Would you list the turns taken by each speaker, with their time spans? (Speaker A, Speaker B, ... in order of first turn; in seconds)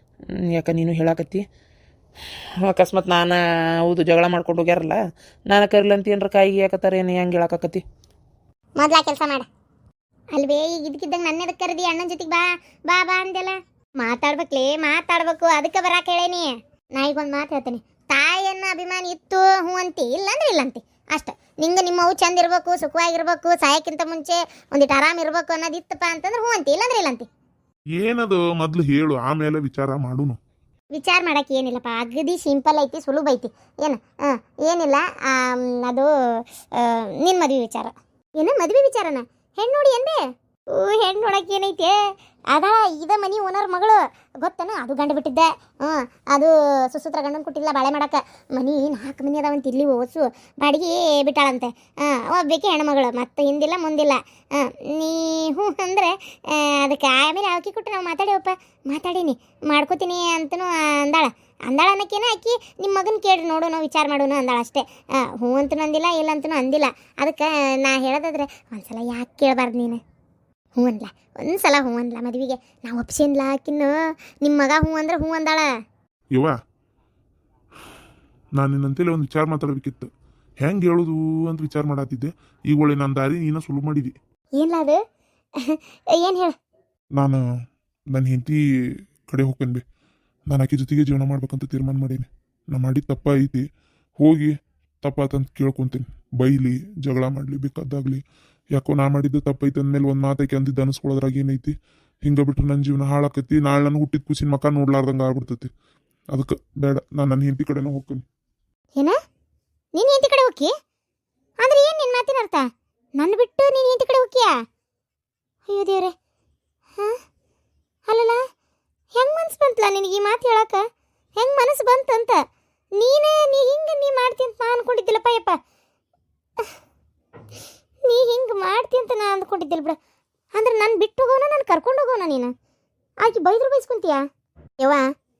Speaker A: 0.3-1.4, 2.7-5.0, 5.5-7.8
Speaker B: 8.8-9.5, 10.4-27.3, 30.9-36.1, 36.8-40.2, 40.7-42.0, 42.5-70.0, 70.8-75.7, 84.6-85.0, 85.7-86.5, 110.0-110.7, 111.6-112.7, 113.2-114.5, 115.7-116.1, 118.1-118.4, 119.2-120.8, 121.4-122.4, 123.0-125.6, 128.1-130.0, 130.5-132.5, 133.2-134.2
Speaker C: 28.0-30.4, 78.6-80.1, 80.6-84.1, 88.1-88.6, 89.2-89.8, 90.5-93.6, 94.2-98.2, 98.8-105.7, 106.3-108.2